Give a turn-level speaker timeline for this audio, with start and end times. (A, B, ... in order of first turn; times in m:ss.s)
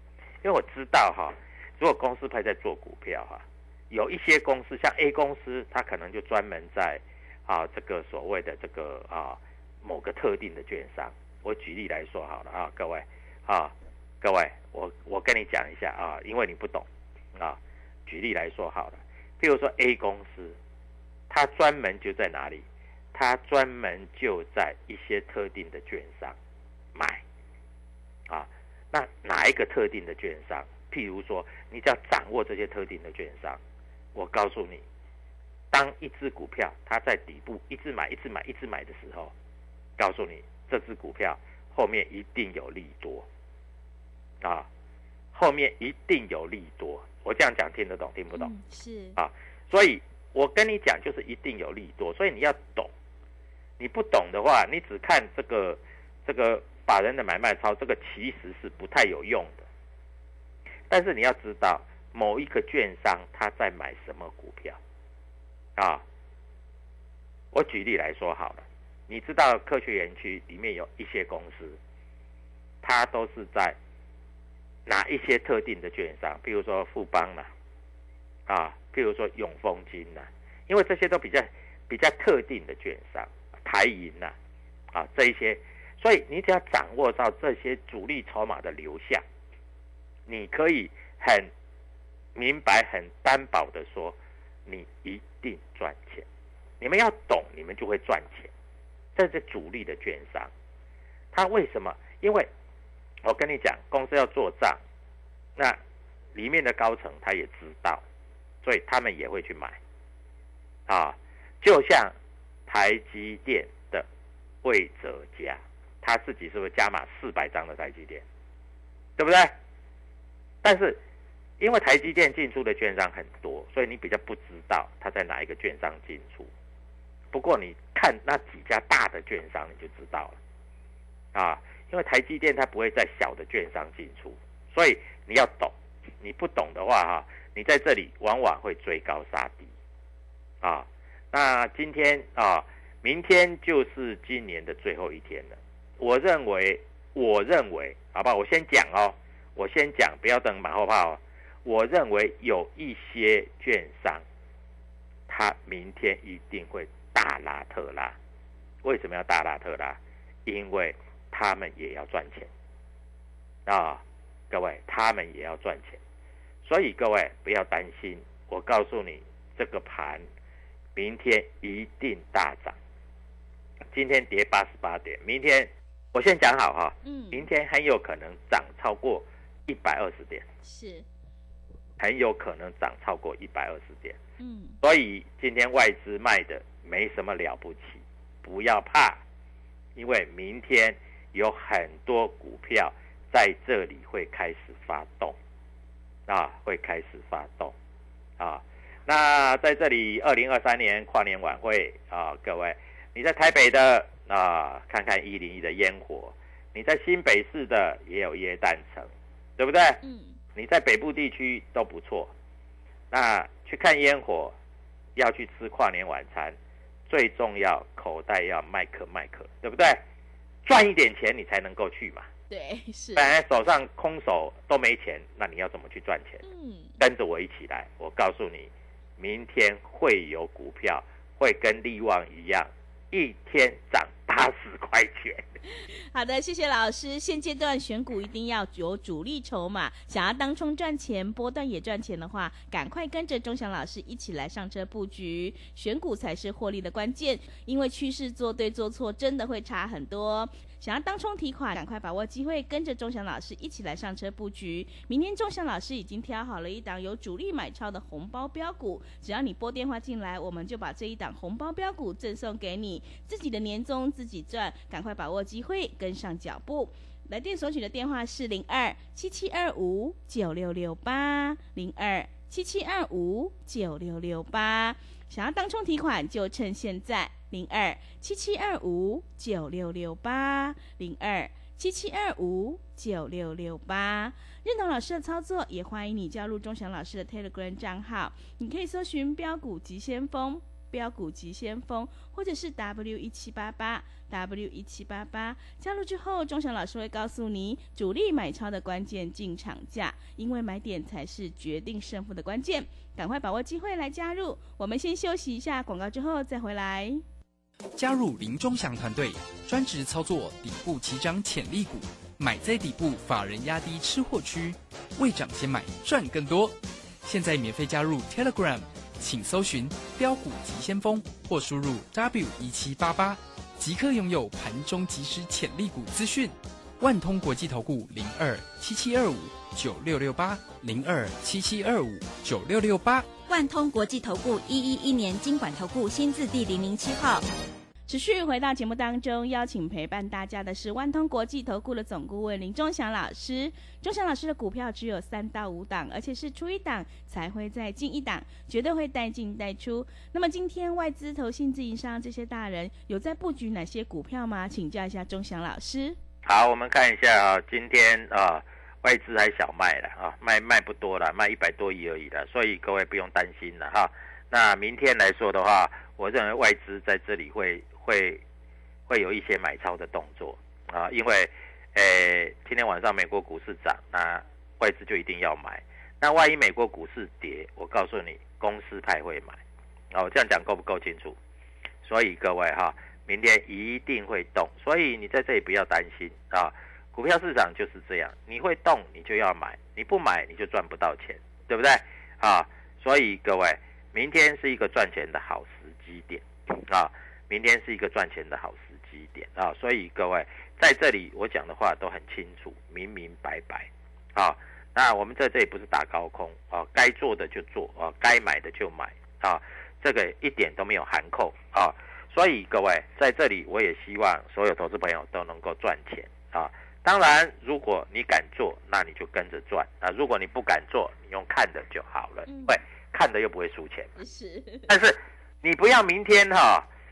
0:00.4-0:20.6 A
0:21.3-0:26.4 A
0:26.9-0:27.2 A
0:28.3-0:33.6 A
0:34.1-0:34.8 A
0:35.7-0:39.3 A
0:40.0-0:43.3 A
0:44.4-0:44.7 A
0:45.3-0:48.5 A
0:48.3-0:49.2 B
0:49.2-0:52.9 A
0:53.8-0:59.6 A
1:00.9-1:04.8 A
1:05.8-1:06.0 A
1:07.5-1:11.8 A
1:12.8-1:13.8 A
1:14.8-1:17.5 A
1:18.5-1:24.3 A
1:24.9-1:29.2 A
1:30.3-1:31.5 A
1:32.3-1:36.2 A
1:36.8-1:38.5 A
1:39.1-1:40.5 A
1:41.3-1:42.5 A
1:43.2-1:44.8 A
1:46.3-1:48.0 A
1:48.6-1:49.8 A
1:50.9-1:52.1 A
1:52.7-1:54.0 A
1:54.6-1:58.2 A
1:59.2-1:59.5 A
2:00.6-2:01.0 A
2:01.6-2:06.5 A
2:07.3-2:10.4 A
2:11.3-2:19.7 A
2:20.6-2:34.2 A
2:35.3-2:38.2 A
2:38.8-2:42.5 A
2:43.6-2:46.0 A
2:46.6-2:50.2 A
2:51.0-2:52.8 A
2:53.9-3:00.4 A
2:57.0-2:57.5 B
3:00.6-3:01.0 B
3:02.0-3:04.2 A
3:04.4-3:04.8 B
3:04.8-3:09.2 A
3:10.0-3:15.4 A
3:16.3-3:17.7 A
3:18.4-3:30.0 A
3:30.0-3:30.4 B
3:30.5-3:32.3 A
3:33.1-3:34.5 A
3:35.2-3:36.5 A
3:37.1-3:40.0 A
3:40.6-3:42.3 A
3:42.5-3:43.3 B
3:43.1-3:46.4 A
3:46.4-3:47.0 B
3:47.0-3:55.4 A
3:55.9-5:07.2 B
5:08.0-5:33.3 C
5:33.5-5:37.4 D
5:38.1-5:56.2 B
5:56.4-6:08.4 A
6:09.1-6:19.6 A
6:20.1-6:21.4 A
6:22.0-7:04.1 A
7:02.4-7:02.8 B
7:04.2-7:04.9 B
7:04.9-7:06.9 A